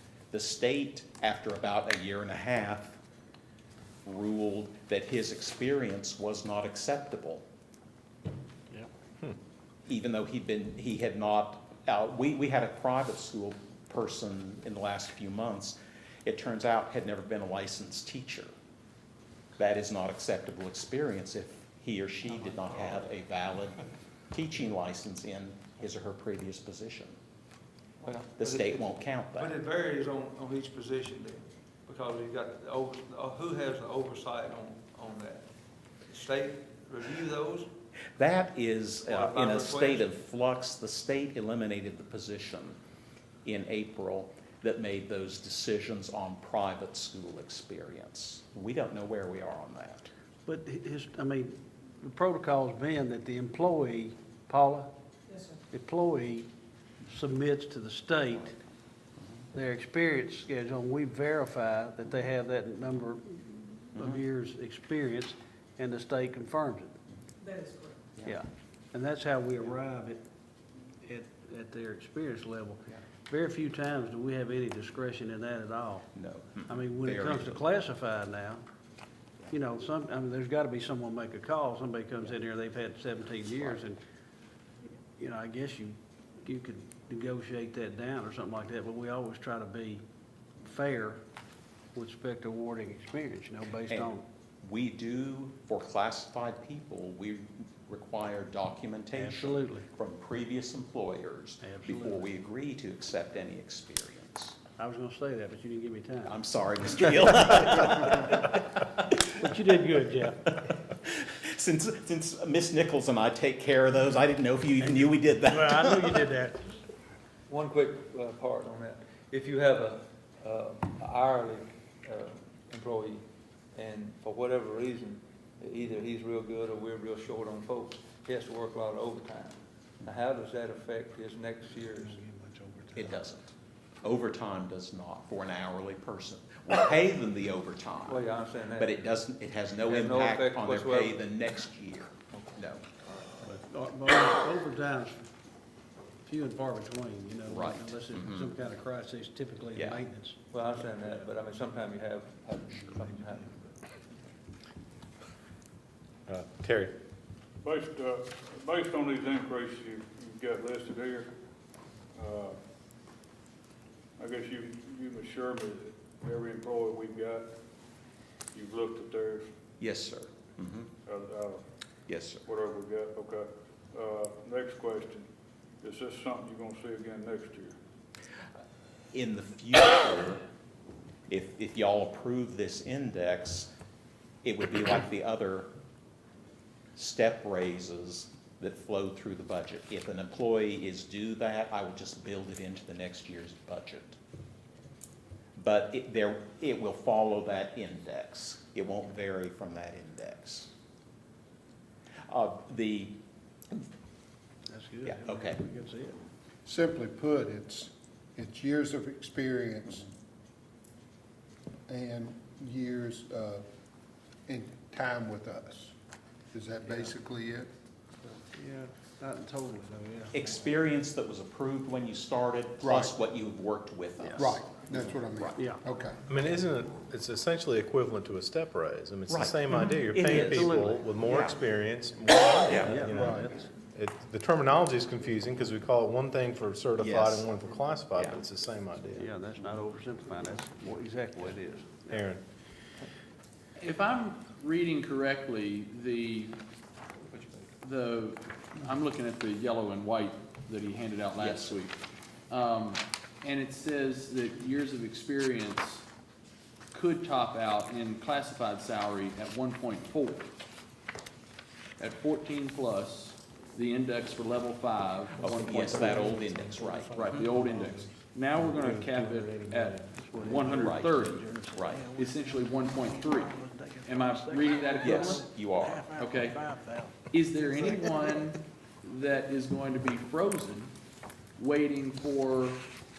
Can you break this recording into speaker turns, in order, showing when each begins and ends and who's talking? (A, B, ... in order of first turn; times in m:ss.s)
0:00.3-0:03.0 A
0:04.0-0:07.4 A
0:09.9-0:18.5 A
0:19.6-0:27.2 A
0:28.0-0:35.5 B
0:28.4-0:29.5 A
0:36.1-0:37.7 B
0:38.1-0:42.8 A
0:39.0-0:40.2 B
0:43.4-0:50.1 A
0:50.4-0:54.9 C
0:55.5-0:56.5 C
0:57.1-0:58.6 C
0:59.5-1:06.9 C
1:08.2-1:10.2 C
1:11.0-1:16.1 C
1:16.1-1:17.6 A
1:16.7-1:18.6 C
1:19.5-1:24.0 C
1:25.2-1:30.0 C
1:30.6-1:31.2 C
1:31.9-1:34.2 C
1:34.6-1:44.6 A
1:39.1-1:39.8 C
1:41.6-1:42.4 C
1:44.8-1:46.4 C
1:46.2-1:49.0 A
1:49.3-1:50.6 C
1:51.0-1:56.2 A
1:54.9-1:56.8 C
1:57.5-2:12.2 B
2:12.1-2:13.2 C
2:13.0-2:18.2 A
2:18.1-2:19.1 B
2:18.8-2:22.8 A
2:19.8-2:21.2 B
2:23.4-2:25.2 C
2:26.2-2:30.4 C
2:27.5-2:28.5 A
2:29.8-2:30.0 A
2:30.5-2:33.7 B
2:36.3-2:36.9 D
2:37.6-2:41.3 E
2:42.1-2:42.6 E
2:44.2-2:47.5 E
2:48.5-2:49.5 E
2:49.8-2:50.9 A
2:51.0-2:51.6 E
2:52.1-2:52.4 A
2:52.4-2:55.3 E
2:55.8-2:57.7 E
2:59.1-3:00.4 A
3:01.3-3:03.7 A
3:04.4-3:05.7 A
3:07.0-3:14.2 A
3:15.5-3:20.7 A
3:22.3-3:23.2 A
3:24.7-3:26.2 C
3:25.0-3:25.6 A
3:26.6-3:30.0 F
3:31.9-3:33.6 F
3:34.5-3:35.9 F
3:36.5-3:37.7 F
3:36.8-3:37.1 C
3:38.3-3:40.7 C
3:40.3-3:45.6 A
3:42.8-3:43.1 F
3:44.2-3:44.6 C
3:44.4-3:46.2 F
3:45.5-3:45.8 C
3:46.3-3:59.3 D
3:49.3-3:51.6 A
3:50.3-3:51.0 C
3:52.7-3:53.0 A
3:52.8-3:53.5 C
3:53.2-3:53.4 F
3:57.0-3:57.4 A
3:59.2-4:02.2 C
4:02.1-4:02.4 D
4:03.8-4:06.6 G
4:07.3-4:11.9 G
4:11.4-4:11.8 A
4:12.5-4:16.0 G
4:16.9-4:20.5 G
4:22.0-4:26.4 G
4:25.5-4:27.5 A
4:25.9-4:28.2 C
4:27.2-4:31.4 G
4:28.7-4:37.1 C
4:30.9-4:32.0 A
4:32.0-4:33.5 G
4:34.0-4:35.5 G
4:35.0-4:36.1 A
4:36.2-4:36.6 G
4:37.3-4:40.9 G
4:37.7-4:38.2 C
4:41.6-4:42.8 G